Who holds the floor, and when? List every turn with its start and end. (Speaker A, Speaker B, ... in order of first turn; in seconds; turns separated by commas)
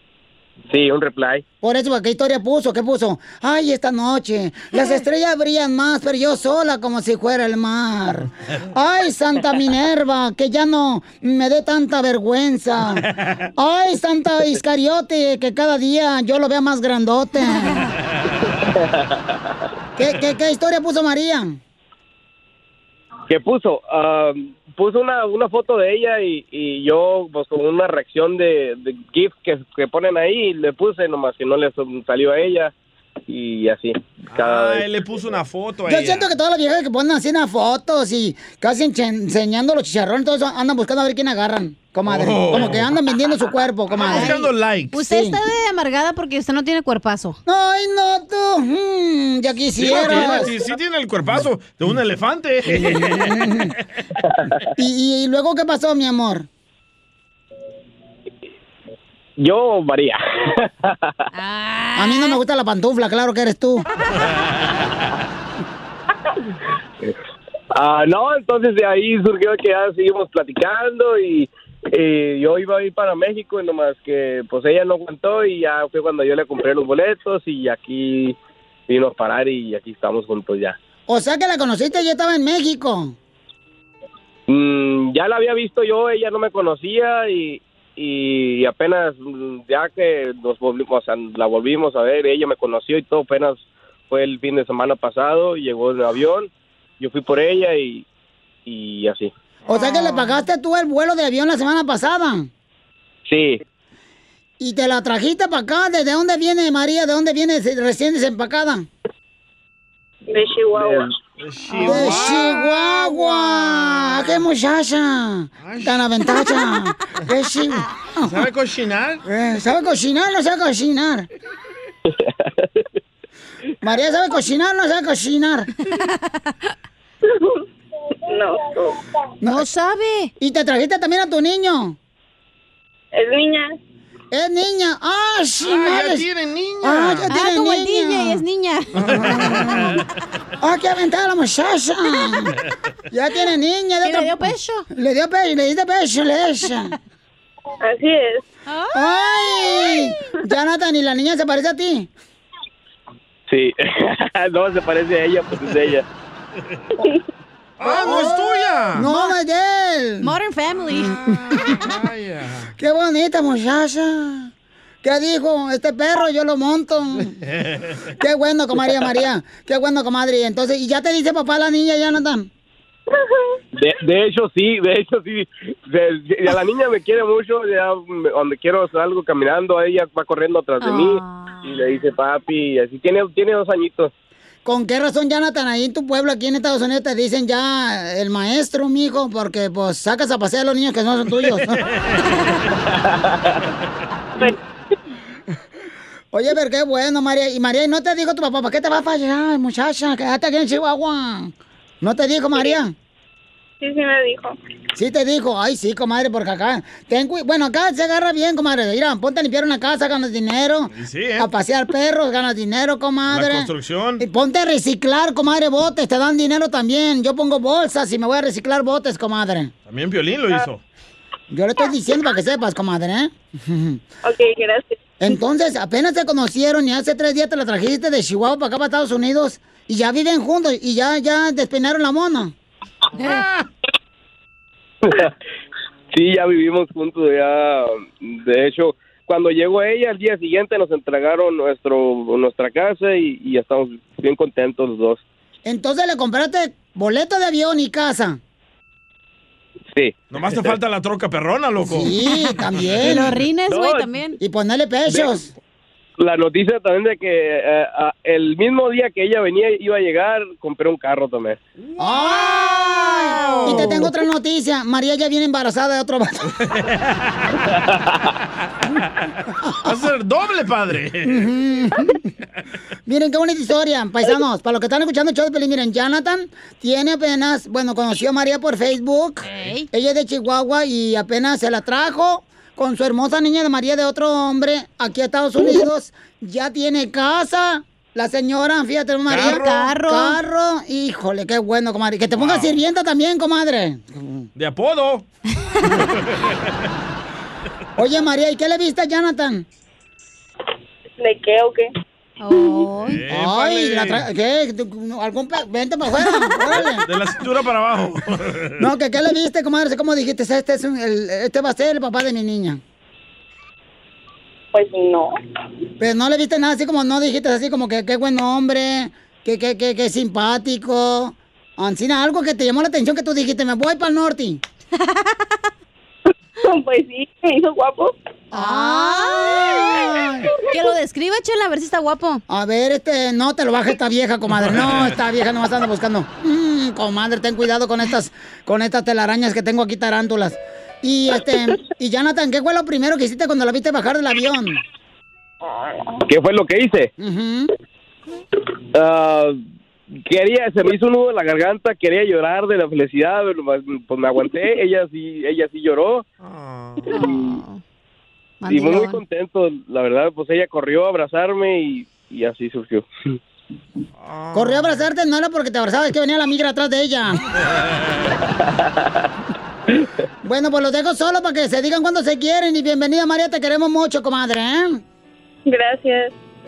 Speaker A: 0.7-1.4, Speaker B: 1.6-13.1, Speaker B: 13.6-17.9, Speaker A: 18.6-19.4, Speaker B: 20.0-21.6, Speaker A: 23.3-32.7, Speaker A: 33.3-34.9, Speaker C: 34.3-36.3, Speaker B: 35.9-44.4, Speaker C: 42.1-42.9, Speaker C: 43.9-45.0, Speaker D: 44.0-47.4, Speaker B: 45.0-45.4, Speaker B: 47.5-50.5, Speaker C: 49.8-53.5, Speaker B: 52.7-53.7, Speaker B: 54.8-56.5, Speaker A: 59.4-61.1, Speaker D: 61.3-62.4, Speaker B: 62.0-63.9, Speaker A: 67.7-78.4, Speaker A: 78.9-80.8, Speaker B: 81.1-83.2, Speaker A: 84.5-98.0, Speaker A: 98.7-99.3, Speaker B: 99.7-102.5, Speaker D: 99.7-100.4, Speaker A: 103.2-103.6, Speaker B: 104.6-108.9, Speaker E: 110.3-111.0, Speaker A: 110.8-111.0, Speaker C: 111.4-112.7, Speaker D: 111.7-112.2, Speaker B: 111.8-118.4, Speaker D: 112.9-113.4, Speaker C: 115.6-116.0, Speaker C: 118.2-119.2, Speaker B: 119.2-121.3, Speaker A: 122.1-122.8, Speaker B: 123.8-125.7, Speaker D: 125.9-126.3, Speaker E: 127.2-127.6, Speaker E: 128.3-129.0, Speaker B: 129.4-129.7, Speaker D: 129.4-130.3, Speaker B: 130.4-132.0, Speaker E: 133.1-133.7, Speaker B: 134.3-136.3, Speaker C: 135.6-137.3, Speaker B: 136.8-138.4, Speaker D: 137.3-139.2, Speaker C: 139.0-140.0, Speaker B: 139.0-140.0, Speaker B: 140.6-142.5, Speaker B: 143.1-147.0, Speaker D: 144.0-144.8, Speaker E: 147.8-148.4, Speaker D: 148.7-149.0, Speaker B: 148.9-152.1, Speaker A: 153.5-156.0, Speaker C: 157.8-159.1, Speaker B: 157.8-160.4, Speaker D: 159.0-159.3, Speaker D: 160.2-161.4, Speaker B: 161.1-161.9, Speaker C: 161.6-162.7, Speaker B: 162.8-164.5, Speaker B: 165.0-167.4, Speaker C: 167.5-168.0, Speaker B: 168.2-172.5, Speaker A: 173.8-184.1, Speaker D: 180.8-181.6, Speaker B: 184.6-191.8, Speaker A: 192.9-193.6, Speaker B: 196.3-202.9, Speaker E: 203.8-204.6, Speaker B: 205.0-219.7, Speaker C: 210.9-211.5, Speaker C: 213.3-214.2, Speaker C: 219.9-220.8, Speaker B: 221.5-224.0, Speaker E: 224.2-224.9, Speaker B: 225.2-232.5, Speaker A: 235.0-235.3, Speaker A: 236.1-245.2, Speaker B: 245.7-248.4, Speaker A: 249.9-250.8, Speaker C: 250.3-252.1, Speaker B: 251.8-253.4, Speaker D: 252.9-254.4, Speaker A: 253.7-254.1, Speaker B: 254.4-255.5, Speaker A: 256.2-261.6, Speaker B: 262.0-266.5, Speaker D: 263.0-264.1, Speaker C: 263.3-264.0, Speaker A: 267.8-268.2, Speaker C: 269.8-271.4, Speaker B: 271.2-272.2, Speaker B: 273.1-294.5, Speaker D: 279.5-279.9, Speaker C: 289.3-289.7, Speaker D: 289.4-290.4, Speaker C: 292.4-292.7, Speaker C: 294.6-295.2, Speaker C: 295.9-296.7, Speaker B: 298.0-299.7, Speaker E: 301.2-301.9, Speaker D: 302.4-303.2, Speaker C: 303.0-304.2, Speaker B: 303.3-307.1, Speaker C: 306.8-308.8, Speaker B: 308.8-312.8, Speaker E: 314.7-315.3, Speaker B: 316.0-324.6, Speaker D: 325.0-325.6, Speaker E: 326.6-328.1, Speaker B: 328.5-330.5, Speaker D: 328.5-330.1, Speaker D: 330.7-332.4, Speaker B: 332.5-344.8, Speaker A: 346.3-347.1, Speaker B: 347.2-347.7, Speaker A: 348.9-349.6, Speaker A: 350.2-356.2, Speaker C: 356.4-357.1, Speaker D: 357.1-357.8, Speaker A: 357.2-357.6, Speaker D: 358.6-359.2, Speaker A: 358.7-363.1, Speaker C: 364.2-365.0, Speaker B: 364.5-367.4, Speaker A: 368.6-369.3, Speaker B: 370.4-375.0, Speaker E: 375.7-376.3